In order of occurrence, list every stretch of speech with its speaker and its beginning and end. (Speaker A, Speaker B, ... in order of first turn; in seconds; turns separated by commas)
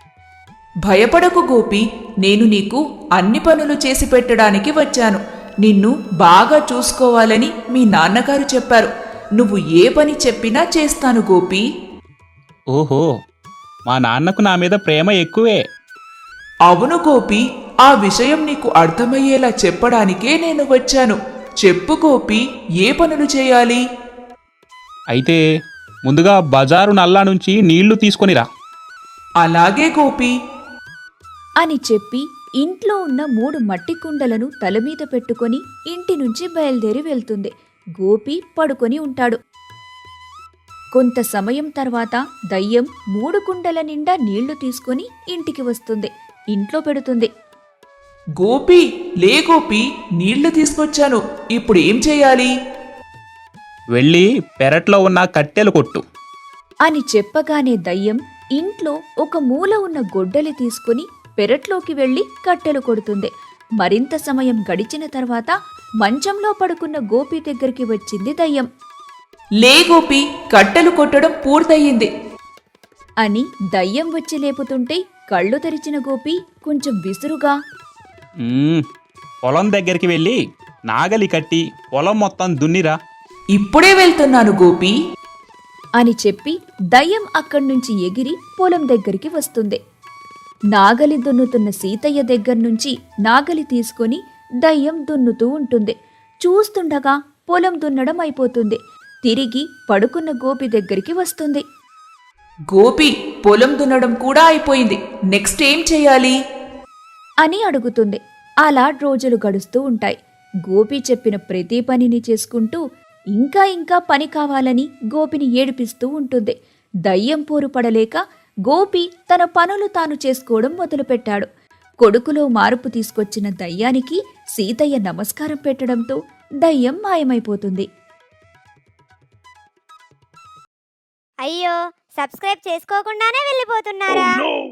Speaker A: 0.8-11.6, Speaker B: 12.7-13.1, Speaker B: 13.9-15.6, Speaker A: 16.7-23.8, Speaker B: 25.1-25.4, Speaker B: 26.0-28.4, Speaker A: 29.4-30.3, Speaker C: 31.6-39.4, Speaker C: 40.9-47.3, Speaker A: 48.4-52.5, Speaker B: 53.9-56.0, Speaker C: 56.9-68.7, Speaker A: 69.6-72.1, Speaker C: 73.2-77.5, Speaker B: 78.4-78.8, Speaker B: 79.4-80.4, Speaker B: 80.9-83.0, Speaker A: 83.5-84.9, Speaker C: 86.0-89.8, Speaker C: 90.7-95.9, Speaker C: 96.4-101.6, Speaker A: 102.7-106.3, Speaker C: 107.4-112.8, Speaker C: 113.3-116.5, Speaker C: 117.0-121.5, Speaker C: 122.0-127.8, Speaker D: 131.4-134.4